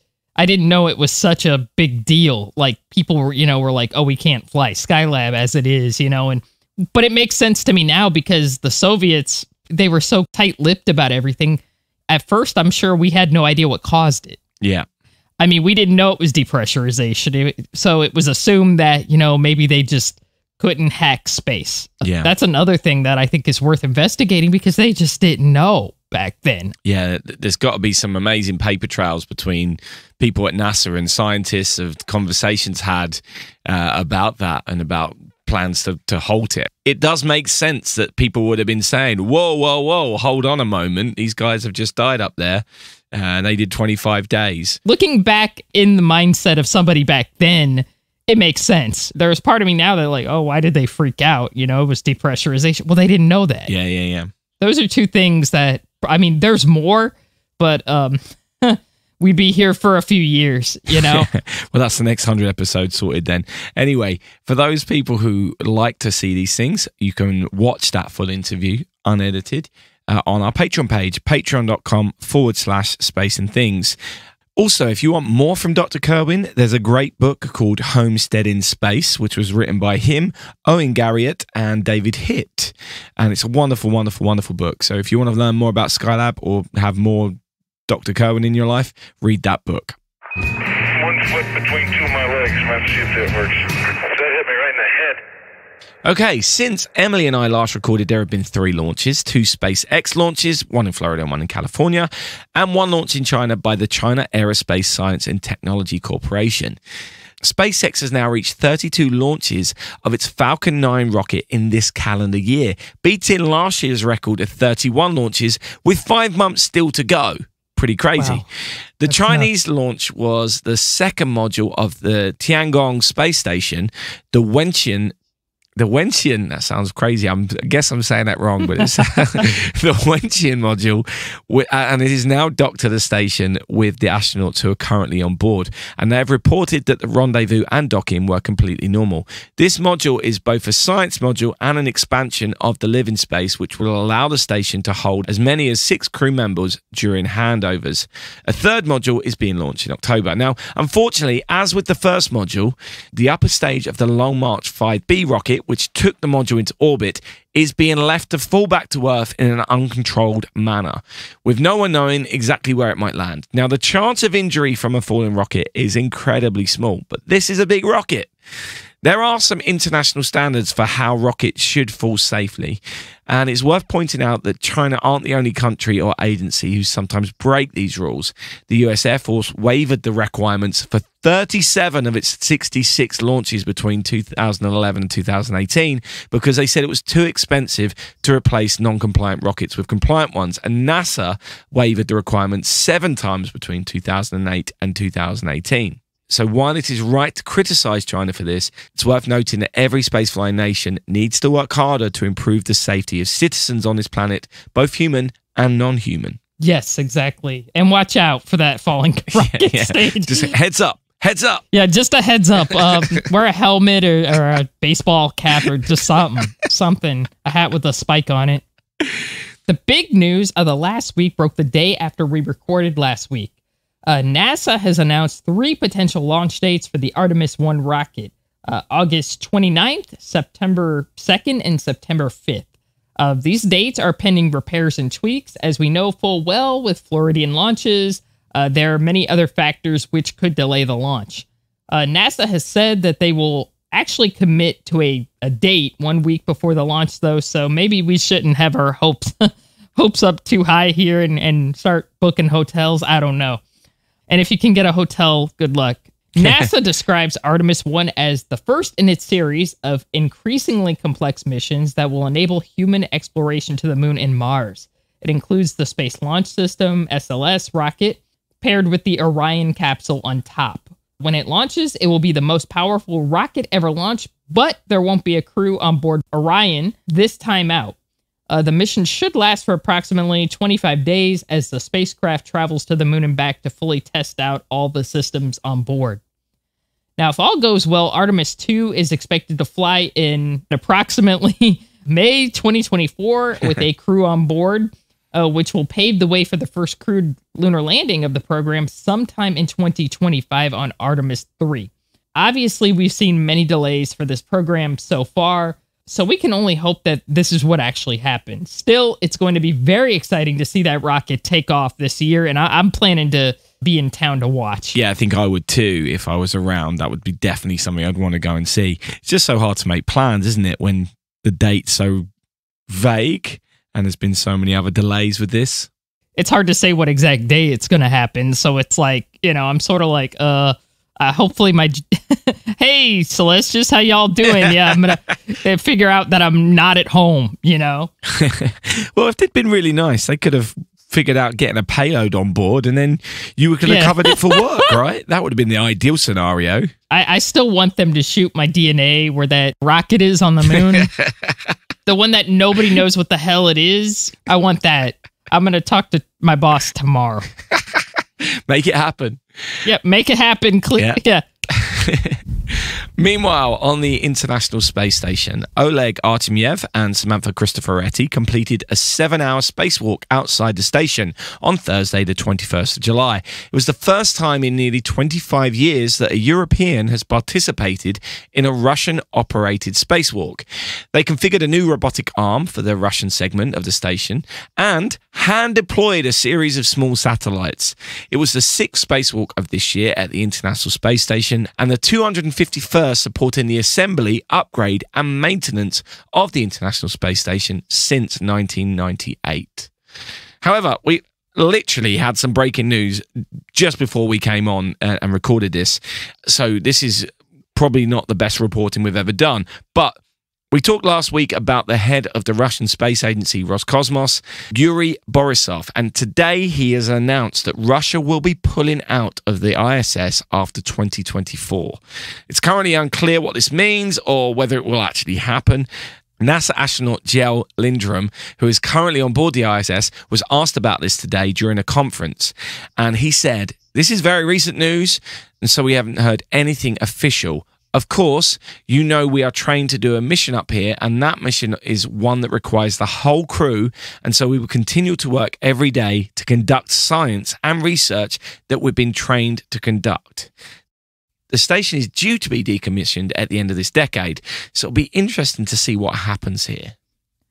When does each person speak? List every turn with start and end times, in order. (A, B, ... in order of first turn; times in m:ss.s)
0:00.4-0:06.4 A
0:06.9-0:14.4 A
0:14.6-0:14.9 B
0:15.4-0:26.7 A
0:22.0-0:22.3 B
0:26.9-0:44.8 B
0:44.8-0:53.7 A
0:53.7-0:54.3 B
0:54.6-1:01.3 A
1:01.0-1:14.0 B
1:14.6-1:27.4 B
1:27.9-1:30.0 B
1:30.6-1:35.2 C
1:36.0-1:46.8 B
1:47.4-1:58.5 B
1:58.2-1:58.4 A
1:59.0-2:05.1 B
1:59.1-1:59.5 A
2:05.8-2:48.3 B
2:08.8-2:09.4 A
2:49.0-3:26.4 B
3:26.6-3:30.5 A
3:29.3-3:31.6 B
3:31.7-3:38.6 A
3:39.7-3:43.5 A
3:44.1-3:52.7 A
3:53.2-4:13.6 A
4:14.3-4:38.0 A
4:38.5-4:46.2 A
4:47.2-5:15.0 A
5:15.0-5:22.3 B
5:22.9-5:25.9 B
5:26.4-5:38.1 A
5:38.4-5:46.9 B
5:43.9-5:44.9 A
5:47.1-5:51.1 A
5:51.0-5:51.7 B
5:52.1-5:57.5 A
5:58.4-5:59.9 B
5:59.8-6:01.4 A
6:01.0-6:39.9 B
6:40.6-6:50.2 B
6:50.7-7:05.9 B
7:06.4-7:30.5 B
7:31.5-7:36.9 B